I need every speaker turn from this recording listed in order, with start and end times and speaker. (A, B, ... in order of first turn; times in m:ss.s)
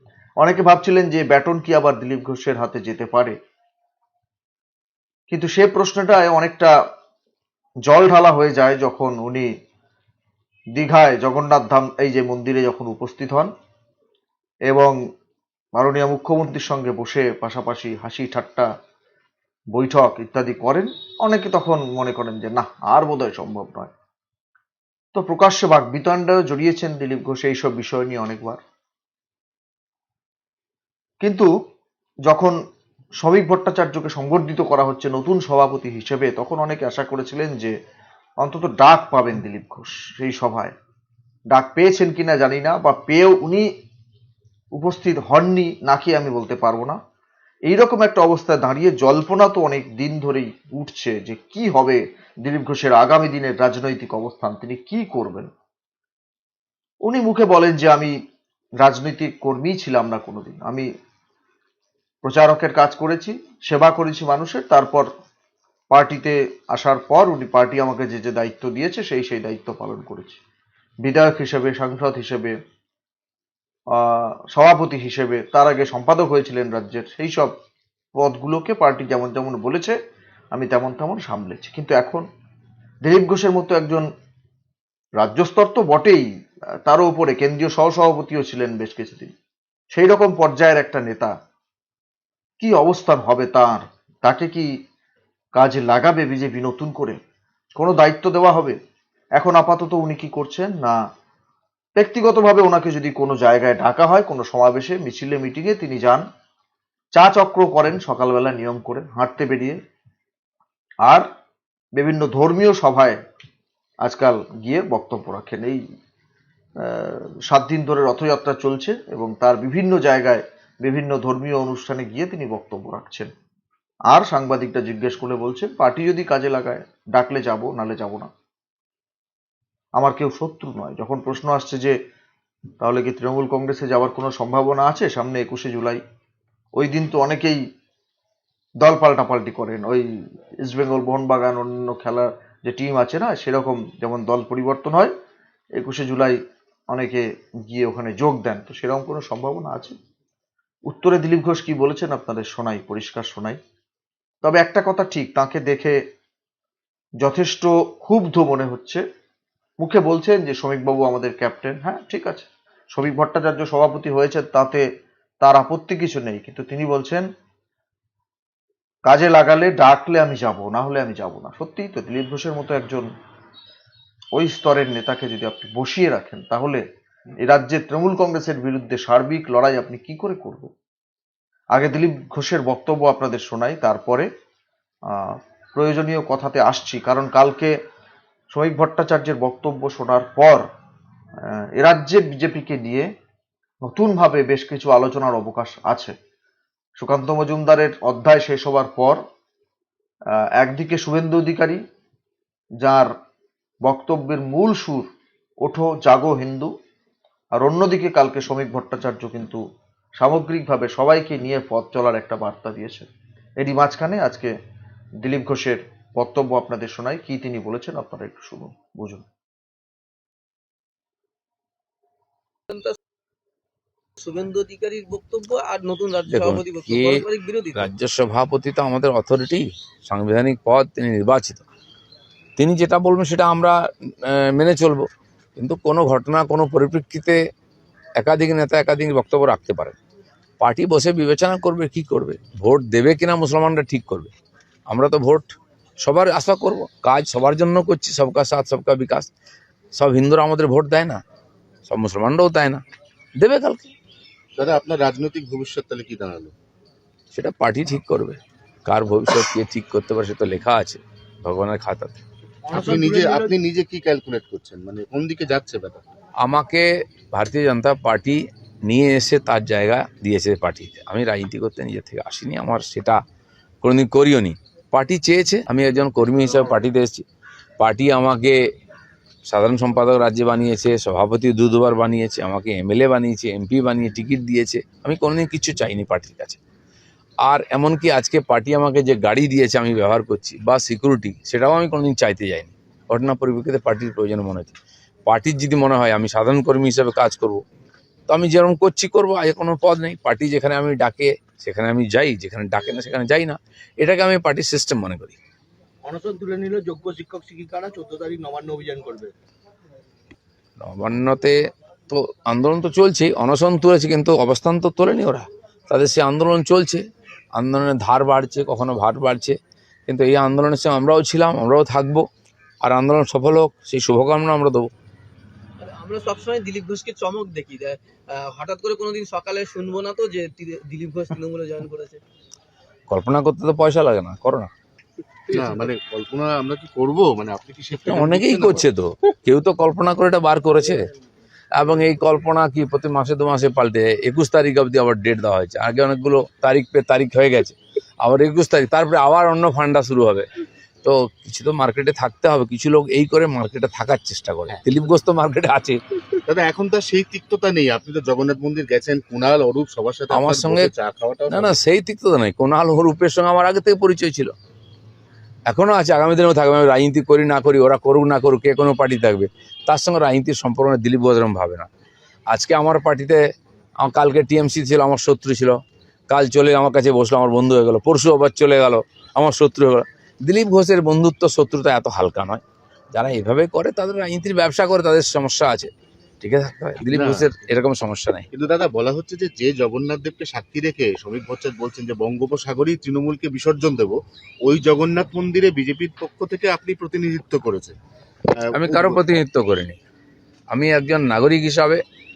0:00.4-0:03.4 A
0:05.3-0:06.7 A
0:07.8-0:09.5 A
0:10.8-0:13.5 A
0:14.7-0:14.9 A
0:15.8-0:18.7 A
0:19.7-0:23.9 A
0:25.1-0:28.6 A
0:31.2-0:31.5 A
0:32.2-0:32.6 A
0:33.2-0:37.7 A
0:38.4-0:40.7 A
0:41.5-0:43.7 A
0:44.7-0:47.0 A
0:47.7-0:55.5 A
0:57.0-0:58.1 A
0:58.8-1:00.9 A
1:02.2-1:05.1 A
1:05.9-1:10.4 A
1:11.0-1:12.5 A
1:14.0-1:17.5 A
1:18.1-1:20.0 A
1:20.5-1:22.2 A
1:23.0-1:24.0 A
1:25.2-1:26.2 A
1:26.8-1:29.3 A
1:29.9-1:31.3 A
1:32.6-1:34.7 A
1:35.6-1:37.2 A
1:37.8-1:38.8 A
1:39.4-1:41.0 A
1:42.0-1:46.2 A
1:47.2-1:49.8 A
1:52.0-1:53.2 A
1:54.0-1:55.8 A
1:56.8-2:03.3 A
2:04.1-2:08.3 A
2:10.0-2:12.0 A
2:12.8-2:16.0 A
2:16.8-2:17.6 A
2:18.8-2:20.0 A
2:20.6-2:25.1 A
2:25.8-2:26.4 A
2:26.9-2:29.9 A
2:30.9-2:33.6 A
2:34.4-2:36.0 A
2:37.2-2:39.0 A
2:39.8-2:44.8 A
2:45.4-2:47.2 A
2:49.1-2:53.1 A
2:54.3-2:56.8 A
2:57.4-3:00.7 A
3:01.7-3:04.3 A
3:05.1-3:07.7 A
3:08.5-3:10.6 A
3:11.8-3:13.1 A
3:13.8-3:16.1 A
3:17.0-3:19.2 A
3:20.6-3:21.8 A
3:22.8-3:23.1 A
3:23.8-3:25.0 A
3:25.6-3:26.7 A
3:27.6-3:29.6 A
3:30.2-3:33.1 A
3:33.6-3:34.5 A
3:35.2-3:39.2 A
3:44.2-3:47.9 B
3:46.3-3:47.2 C
3:47.7-3:51.6 C
3:52.6-3:53.8 C
3:54.3-3:55.0 C
3:55.6-3:57.4 C
3:58.2-4:00.0 C
4:00.6-4:04.3 C
4:04.9-4:05.5 C
4:06.0-4:09.3 C
4:10.0-4:11.2 C
4:11.9-4:12.8 C
4:13.4-4:13.9 C
4:14.6-4:16.5 D
4:17.3-4:22.2 C
4:22.6-4:23.6 E
4:22.7-4:26.0 D
4:26.4-4:33.2 C
4:33.8-4:37.2 C
4:37.8-4:38.6 C
4:39.5-4:46.6 C
4:47.4-4:54.7 C
4:55.3-4:57.6 C
4:58.3-5:05.4 C
5:06.0-5:09.3 E
5:10.8-5:11.5 C
5:12.1-5:17.0 C
5:17.6-5:22.2 C
5:22.8-5:24.9 C
5:25.8-5:32.2 B
5:33.1-5:34.7 C
5:35.5-5:38.8 D
5:38.0-5:41.1 C
5:41.7-5:50.4 C
5:51.0-5:56.0 C
5:56.5-6:01.8 D
6:00.3-6:00.9 C
6:01.5-6:04.5 C
6:05.7-6:11.9 C
6:12.5-6:13.4 C
6:14.0-6:15.8 C
6:16.3-6:22.6 C
6:23.1-6:25.9 C
6:26.4-6:28.4 C
6:27.1-6:27.5 D
6:28.5-6:37.9 D
6:38.6-6:39.4 D
6:38.7-6:40.0 C
6:40.7-6:42.0 C